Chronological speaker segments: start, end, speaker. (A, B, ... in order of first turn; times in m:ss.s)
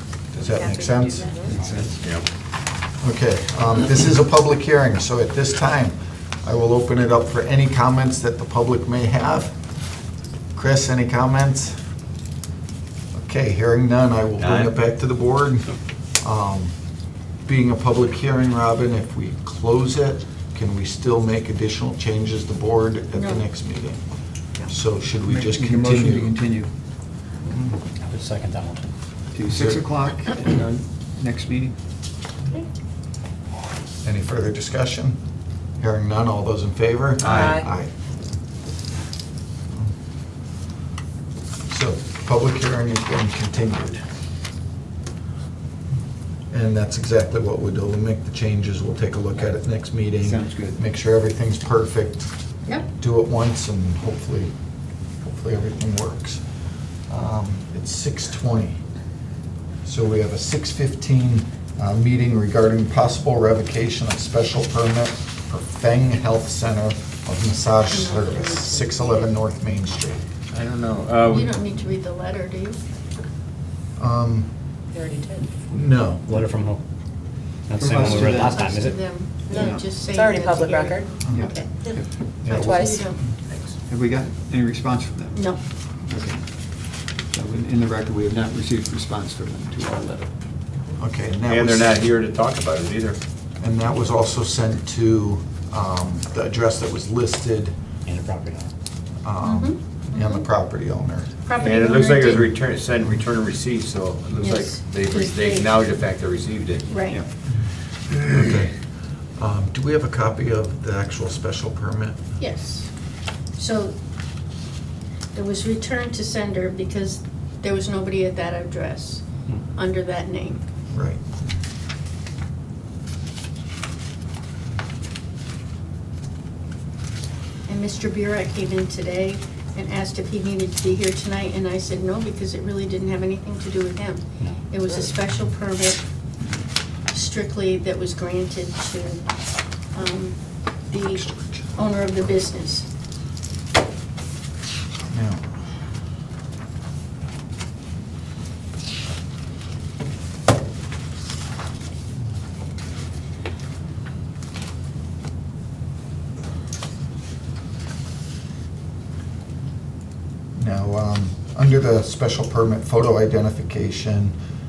0:00.3-0:02.0 A
0:00.4-0:01.6 B
0:00.6-0:01.4 C
0:01.5-0:02.1 D
0:02.0-0:02.3 E
0:03.0-0:09.5 A
0:10.5-0:11.8 A
0:13.1-0:15.7 A
0:14.4-0:14.7 E
0:16.2-0:16.7 A
0:17.5-0:24.0 A
0:23.1-0:23.5 C
0:24.7-0:26.4 A
0:25.2-0:26.7 D
0:27.5-0:27.8 A
0:28.0-0:28.8 F
0:29.3-0:31.8 D
0:29.5-0:29.9 A
0:34.0-0:35.2 A
0:35.8-0:37.9 A
0:37.2-0:37.6 D
0:37.2-0:37.7 B
0:41.7-0:44.0 A
0:46.5-0:52.3 A
0:50.2-0:50.8 D
0:52.9-0:54.5 A
0:55.2-0:56.4 A
0:57.1-0:58.8 A
0:59.8-1:10.2 A
1:07.8-1:09.4 C
1:10.5-1:11.6 E
1:11.3-1:12.8 C
1:14.0-1:14.5 A
1:14.9-1:15.6 B
1:15.7-1:16.3 A
1:16.3-1:16.8 F
1:17.7-1:19.1 F
1:17.8-1:18.7 D
1:18.0-1:21.9 C
1:19.5-1:21.1 B
1:19.5-1:19.8 D
1:21.3-1:22.0 D
1:22.4-1:22.9 A
1:22.4-1:23.2 C
1:22.5-1:23.1 B
1:23.5-1:23.7 E
1:23.9-1:25.5 D
1:25.3-1:25.6 C
1:26.0-1:26.5 D
1:27.3-1:30.3 D
1:31.0-1:32.0 A
1:31.4-1:33.2 E
1:33.6-1:37.7 A
1:38.1-1:38.7 F
1:39.2-1:41.4 A
1:39.4-1:40.4 C
1:41.4-1:42.5 C
1:41.6-1:47.0 E
1:44.4-1:45.7 C
1:46.9-1:47.2 C
1:48.3-1:48.7 A
1:49.4-1:52.2 A
1:52.4-1:52.9 C
1:53.6-1:53.9 C
1:55.3-2:00.6 C
2:00.9-2:01.2 A
2:07.7-2:16.0 C
2:17.1-2:19.3 C
2:19.9-2:22.9 C
2:20.9-2:21.8 A
2:25.1-2:25.5 A
2:40.6-2:44.4 A